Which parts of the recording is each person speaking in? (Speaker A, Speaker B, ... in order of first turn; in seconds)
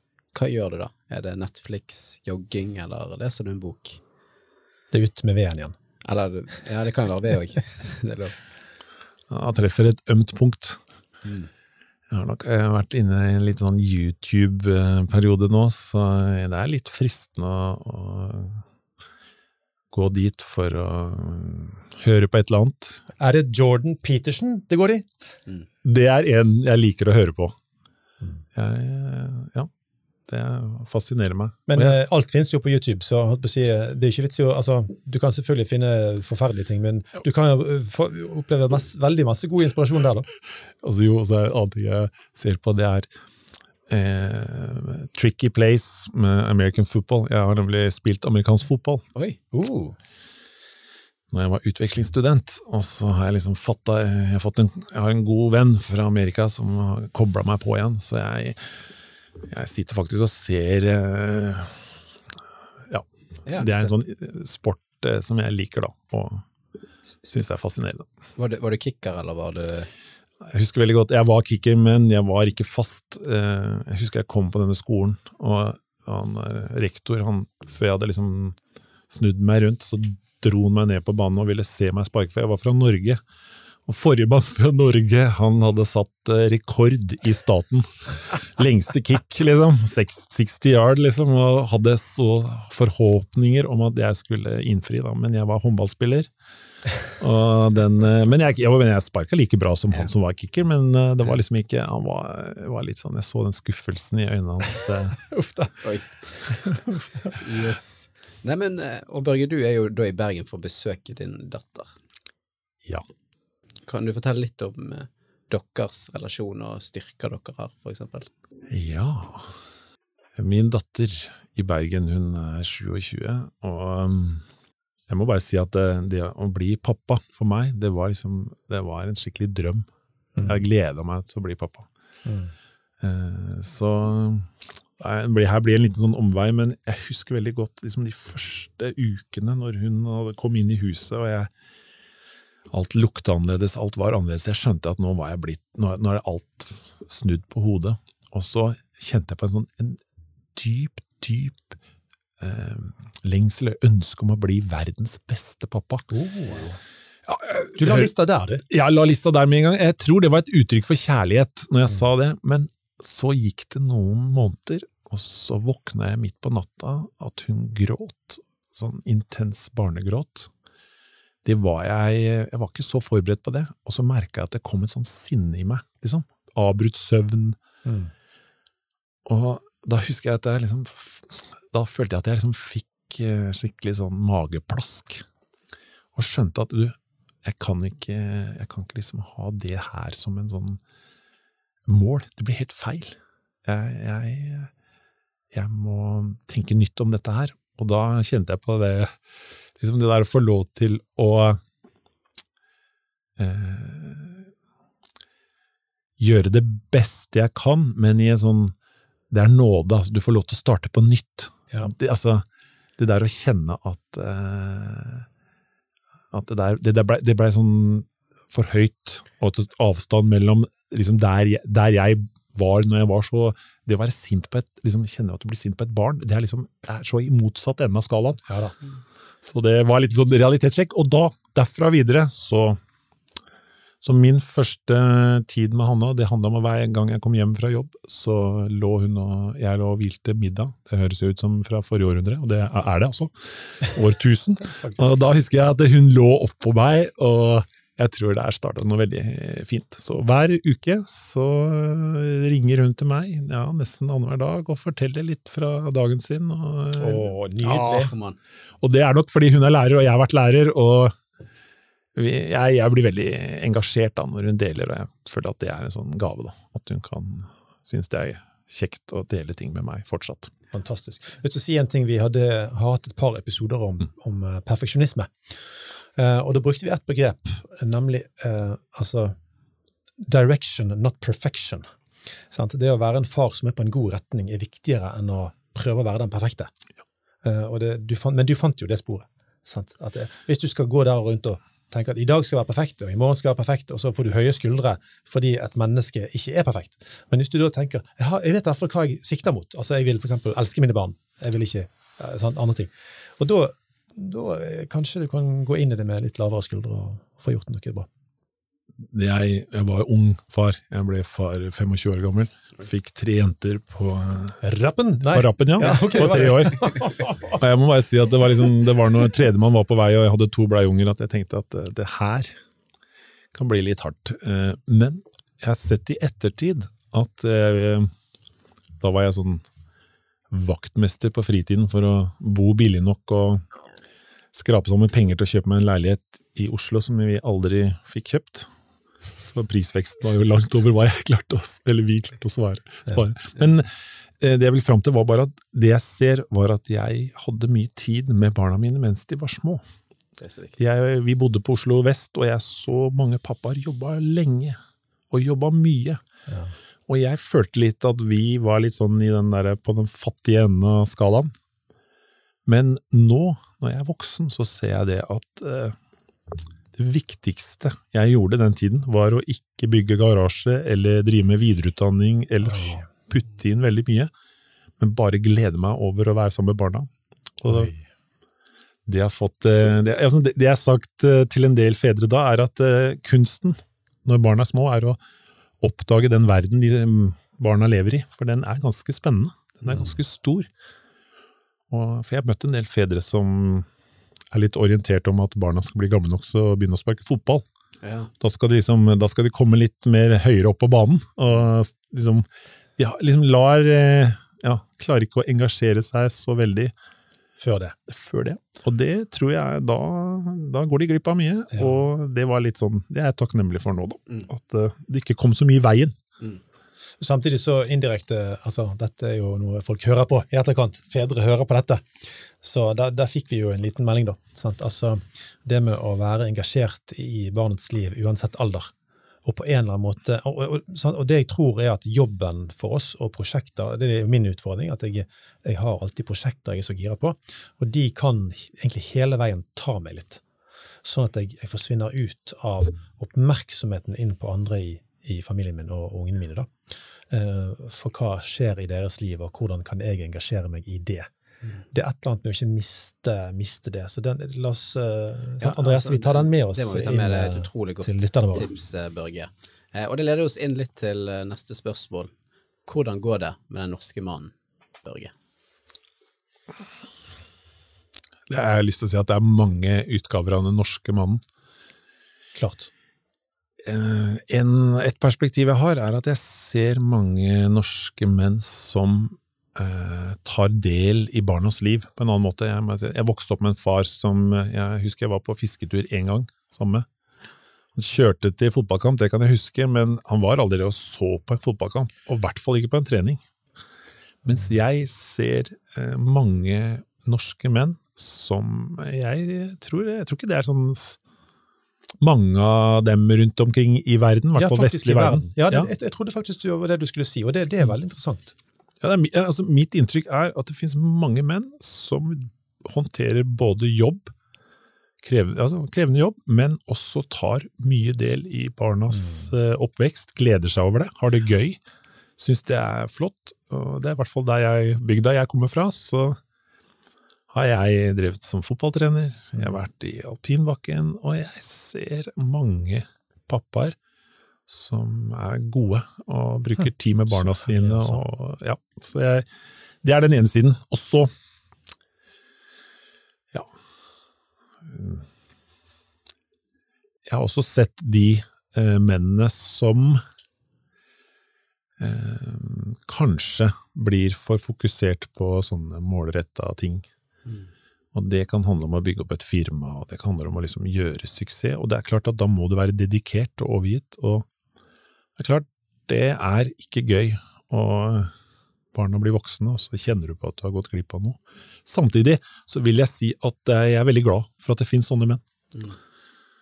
Speaker A: 0.3-4.0, 6.0-8.3, 11.2-11.5, 63.5-63.9, 68.3-69.9, 105.8-106.7, 107.3-111.9, 113.9-118.3, 257.6-258.4, 350.4-350.8, 398.0-398.3, 455.6-462.3, 462.9-465.3, 557.4-557.7
Speaker B: 4.9-5.7, 23.2-25.1, 31.7-40.3, 49.5-50.0, 105.2-107.4, 132.2-132.5, 156.1-156.8, 157.8-158.6, 177.8-178.1, 228.5-228.7, 244.8-245.1, 257.0-258.1, 270.7-275.5, 276.1-279.3, 280.2-281.8, 282.5-286.7, 287.4-308.1, 314.6-317.6, 372.6-373.0, 377.6-378.0, 407.6-407.9, 411.7-412.0, 417.2-428.9, 429.4-440.4, 441.0-446.7, 447.3-451.2, 451.9-458.7, 472.5-472.9, 504.6-508.5, 519.2-519.5, 537.3-538.2
Speaker C: 9.3-10.8, 12.1-18.6, 19.9-23.0, 25.8-27.6, 28.5-29.7, 30.3-32.0, 40.8-43.1, 43.9-49.0, 51.3-58.8, 59.4-61.9, 62.9-66.4, 67.2-68.0, 70.4-78.5, 79.1-83.2, 83.9-96.3, 97.0-105.2, 118.7-119.5, 120.4-124.4, 125.1-129.9, 130.4-131.9, 133.0-141.5, 142.7-150.0, 150.5-151.8, 152.4-156.1, 157.3-170.5, 171.4-177.6, 179.2-185.2, 186.1-190.8, 191.9-194.7, 195.5-199.1, 199.8-201.6, 203.4-204.5, 206.2-208.7, 209.3-212.4, 213.0-215.3, 216.3-228.4, 229.4-232.8, 234.0-257.3, 258.8-261.1, 262.1-270.5, 309.1-314.6, 315.3-317.0, 317.5-322.5, 323.5-328.1, 329.0-329.6, 330.5-333.6, 334.5-338.7, 339.4-349.8, 350.8-354.8, 355.3-356.2, 357.1-361.5, 362.6-365.9, 366.9-374.3, 375.0-377.1, 377.6-377.9, 379.1-385.2, 385.8-390.7, 391.9-393.9, 394.5-397.6, 398.4-402.4, 403.0-406.9, 408.1-416.1, 468.5-471.4, 473.8-487.1, 487.9-493.4, 494.4-501.2, 502.2-505.9, 509.0-514.3, 515.2-521.8, 522.4-526.4, 527.5-534.0, 534.7-539.5, 540.0-541.3, 544.9-545.2, 547.3-550.2, 552.0-557.1, 558.1-564.5, 565.4-568.3, 568.9-575.4